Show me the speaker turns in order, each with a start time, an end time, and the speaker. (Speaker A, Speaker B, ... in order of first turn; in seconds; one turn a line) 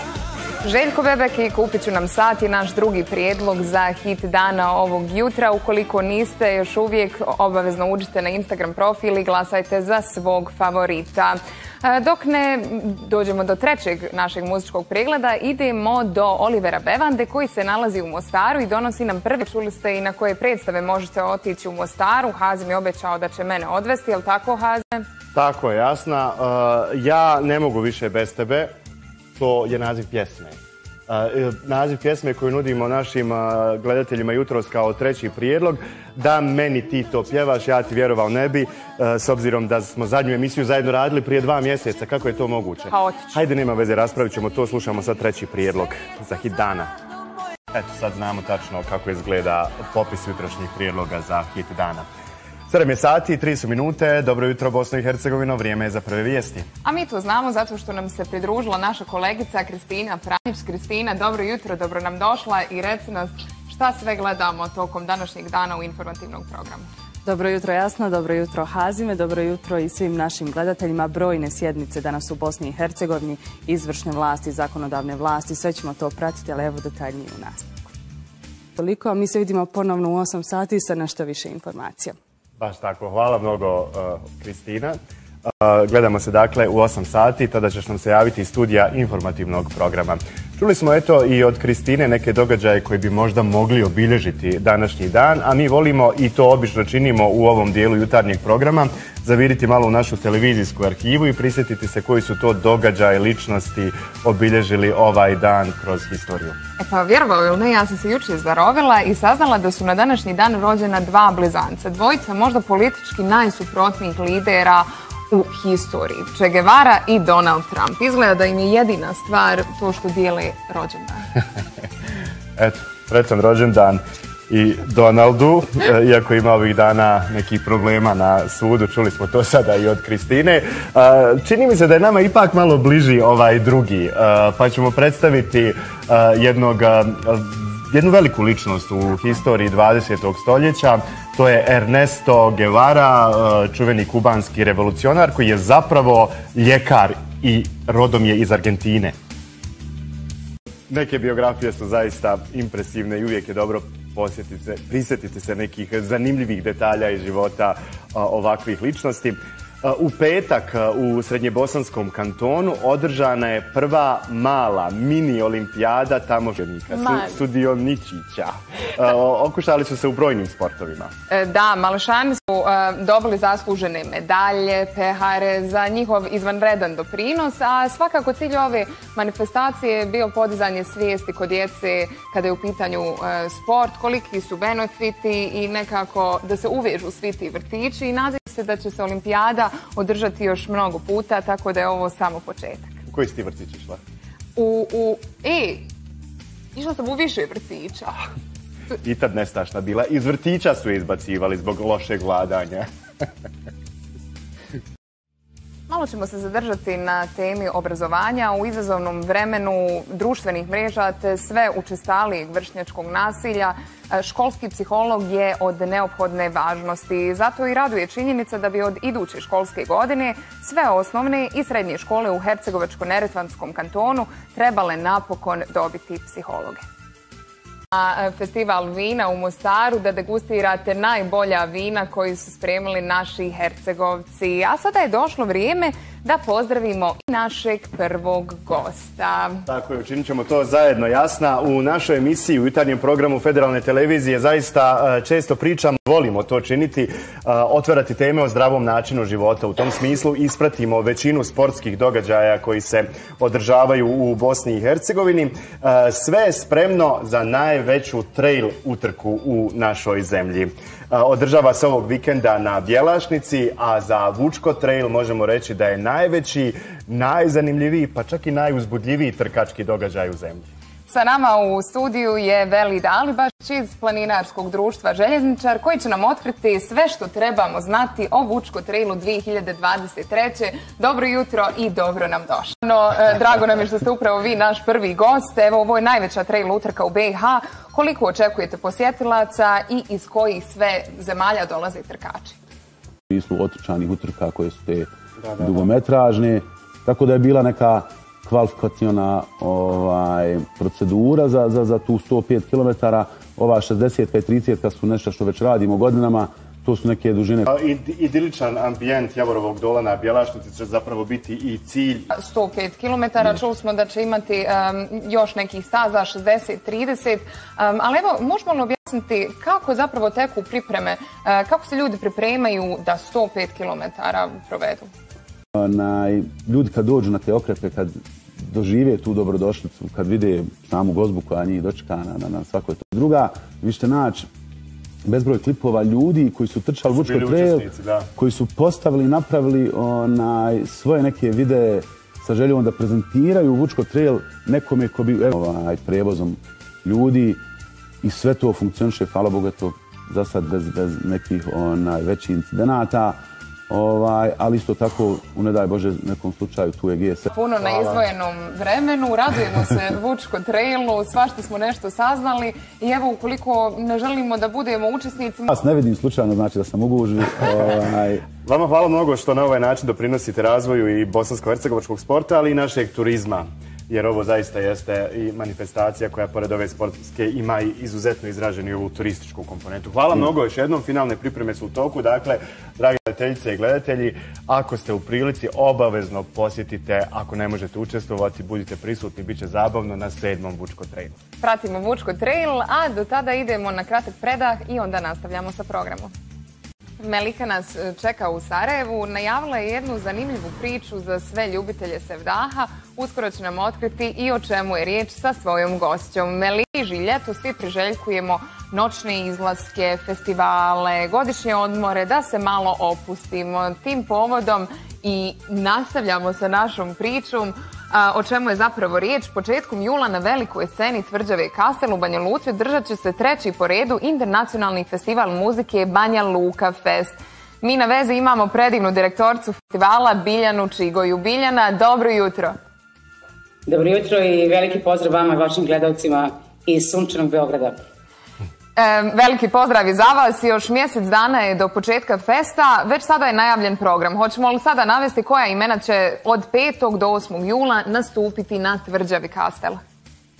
Speaker A: 0.6-25.1
Speaker B: 25.3-28.7
Speaker B: 29.4-30.6
Speaker B: 31.1-46.9
Speaker A: 42.9-43.4
Speaker B: 47.7-52.0
Speaker B: 52.7-56.6
Speaker A: 56.8-66.9
Speaker C: 67.2-77.8
Speaker C: 78.8-82.1
Speaker B: 82.6-85.0
Speaker B: 85.6-106.5
Speaker A: 106.8-121.3
Speaker B: 122.6-149.1
Speaker B: 150.9-171.1
Speaker A: 166.9-167.4
Speaker A: 171.3-192.9
Speaker B: 193.1-194.0
Speaker A: 194.6-195.8
Speaker A: 196.7-198.2
Speaker B: 199.0-202.8
Speaker A: 205.9-226.8
Speaker A: 227.9-239.6
Speaker B: 239.7-270.6
Speaker A: 271.1-292.5
Speaker D: 293.3-307.6
Speaker B: 295.4-295.9
Speaker B: 307.6-312.3
Speaker A: 312.3-325.1
Speaker D: 325.7-334.5
Speaker D: 335.2-347.6
Speaker B: 337.1-338.3
Speaker D: 348.2-353.4
Speaker D: 353.9-357.5
Speaker A: 357.5-365.7
Speaker D: 365.7-368.5
Speaker B: 368.6-391.3
Speaker A: 391.6-396.3
Speaker A: 397.2-432.8
Speaker E: 433.9-438.0
Speaker A: 438.9-450.0